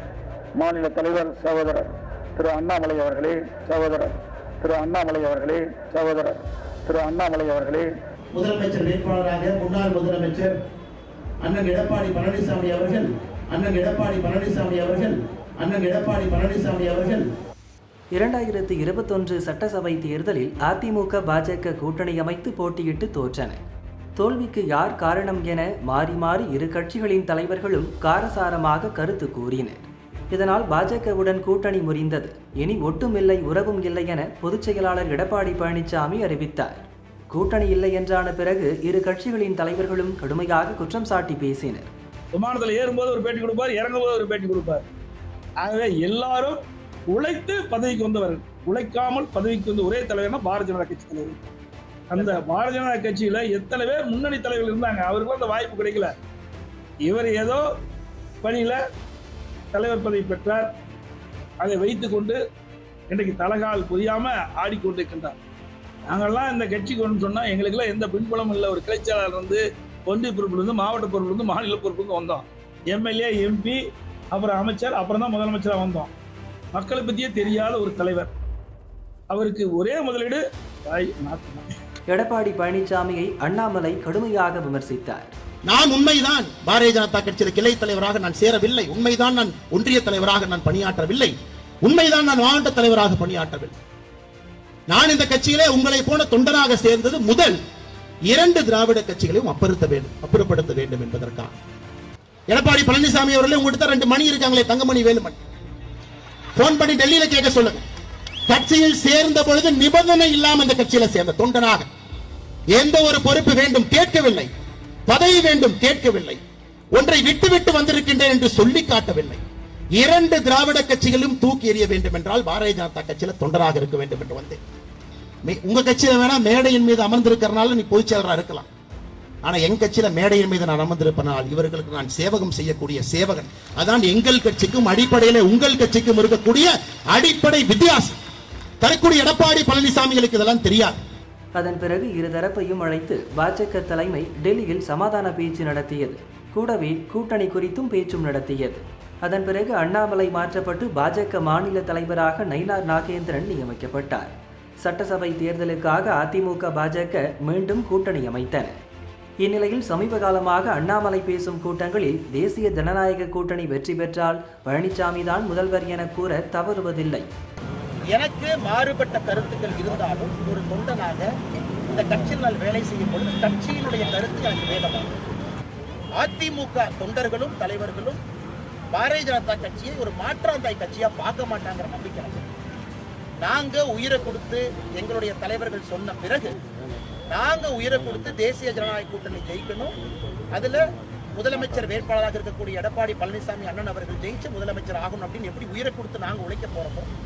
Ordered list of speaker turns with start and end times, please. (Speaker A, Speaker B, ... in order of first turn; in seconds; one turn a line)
Speaker A: 0.6-7.9
Speaker B: 8.3-10.5
Speaker B: 11.4-17.2
Speaker C: 18.1-23.6
Speaker C: 24.2-41.9
Speaker D: 42.3-44.8
Speaker D: 45.6-51.4
Speaker D: 52.1-56.1
Speaker D: 57.0-57.6
Speaker D: 58.4-58.8
Speaker D: 59.7-60.7
Speaker D: 61.6-62.4
Speaker D: 63.1-65.4
Speaker D: 66.1-73.8
Speaker D: 74.3-76.1
Speaker D: 76.7-78.3
Speaker D: 79.3-81.7
Speaker C: 82.1-85.3
Speaker B: 85.7-93.7
Speaker B: 94.9-97.6
Speaker B: 98.3-101.5
Speaker B: 102.5-105.4
Speaker B: 106.5-107.8
Speaker B: 108.5-111.8
Speaker B: 112.7-114.5
Speaker B: 115.1-116.4
Speaker B: 116.9-119.4
Speaker B: 119.9-124.6
Speaker B: 125.5-128.7
Speaker B: 129.4-138.2
Speaker B: 138.8-141.0
Speaker C: 141.6-154.3
Speaker C: 154.8-158.7
Speaker C: 159.4-167.3
Speaker B: 168.1-171.3
Speaker B: 171.9-175.2
Speaker B: 176.2-178.2
Speaker B: 178.9-182.5
Speaker B: 183.4-186.6
Speaker B: 187.3-189.9
Speaker B: 190.5-190.8
Speaker B: 191.3-197.1